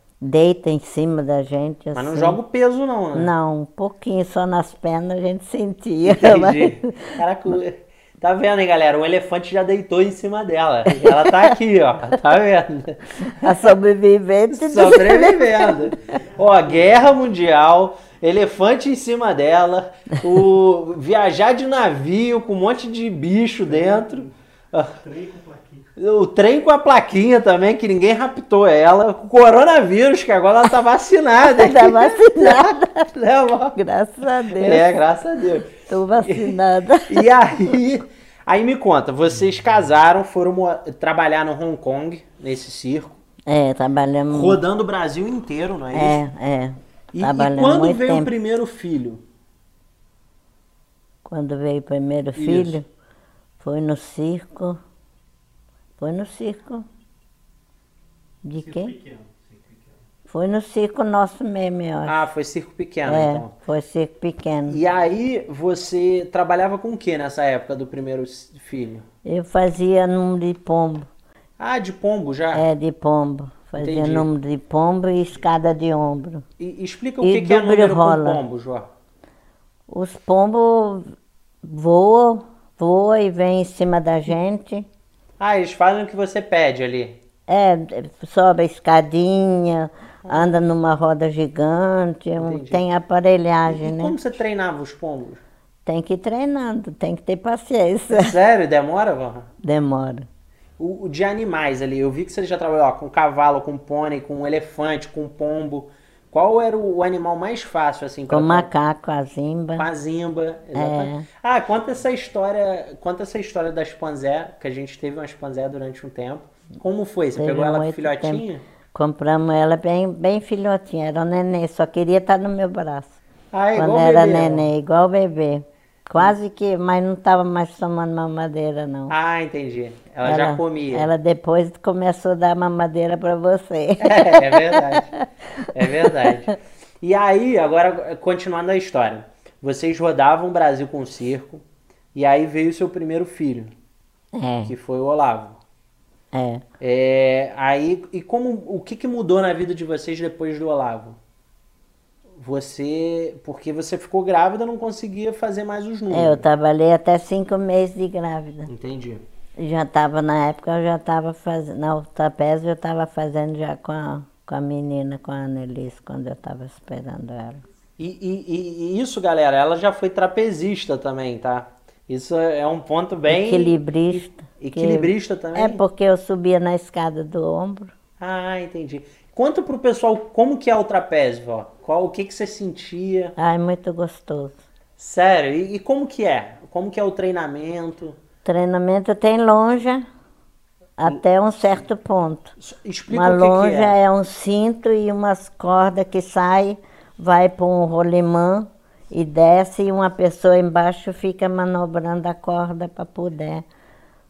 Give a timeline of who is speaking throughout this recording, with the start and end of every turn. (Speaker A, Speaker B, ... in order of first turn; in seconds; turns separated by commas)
Speaker A: 0.2-2.4, Speaker B: 1.9-3.3, Speaker A: 3.1-6.9, Speaker B: 6.0-13.7, Speaker A: 10.9-11.5, Speaker A: 13.3-15.9, Speaker B: 14.5-25.0, Speaker C: 16.2-17.1, Speaker C: 23.7-24.3, Speaker C: 24.9-25.9, Speaker B: 26.0-33.8, Speaker A: 31.5-33.1, Speaker A: 33.7-35.0, Speaker B: 34.5-36.6, Speaker A: 35.8-37.3, Speaker B: 37.1-43.2, Speaker A: 43.5-44.6, Speaker B: 44.3-46.2, Speaker A: 45.9-48.3, Speaker B: 47.1-49.2, Speaker A: 51.2-52.9, Speaker B: 52.4-52.8, Speaker A: 53.6-54.8, Speaker A: 56.0-56.9, Speaker A: 58.4-59.0, Speaker C: 58.5-60.0, Speaker A: 60.3-62.3, Speaker B: 62.1-63.5, Speaker A: 63.0-64.8, Speaker B: 64.7-69.0, Speaker A: 69.2-71.1, Speaker B: 71.6-72.7, Speaker A: 72.5-76.5, Speaker B: 73.8-74.3, Speaker B: 76.6-78.9, Speaker A: 77.2-78.4, Speaker A: 79.9-81.1, Speaker A: 81.6-84.9, Speaker B: 85.4-87.2, Speaker A: 87.5-94.2, Speaker B: 90.2-90.5, Speaker B: 92.4-92.8, Speaker B: 93.7-95.4, Speaker A: 95.9-98.3, Speaker B: 98.1-99.5, Speaker A: 99.6-100.3, Speaker B: 100.8-108.7, Speaker A: 108.3-109.9, Speaker B: 109.8-118.6, Speaker A: 110.8-111.3, Speaker A: 117.4-123.2, Speaker B: 123.5-124.7, Speaker A: 123.8-129.2, Speaker B: 129.1-131.1, Speaker A: 130.2-136.4, Speaker B: 134.0-135.2, Speaker B: 135.7-141.6, Speaker B: 142.1-143.7, Speaker A: 144.3-144.7, Speaker B: 144.7-145.6, Speaker A: 146.3-146.6, Speaker B: 146.8-151.2, Speaker B: 152.4-156.5, Speaker A: 156.1-158.7, Speaker B: 158.7-159.2, Speaker A: 159.6-167.6, Speaker B: 168.0-175.8, Speaker A: 173.3-177.9, Speaker B: 178.2-183.3, Speaker A: 183.4-184.6, Speaker B: 185.0-188.2, Speaker A: 188.4-190.1, Speaker A: 191.0-192.5, Speaker B: 192.6-194.0, Speaker A: 193.1-203.7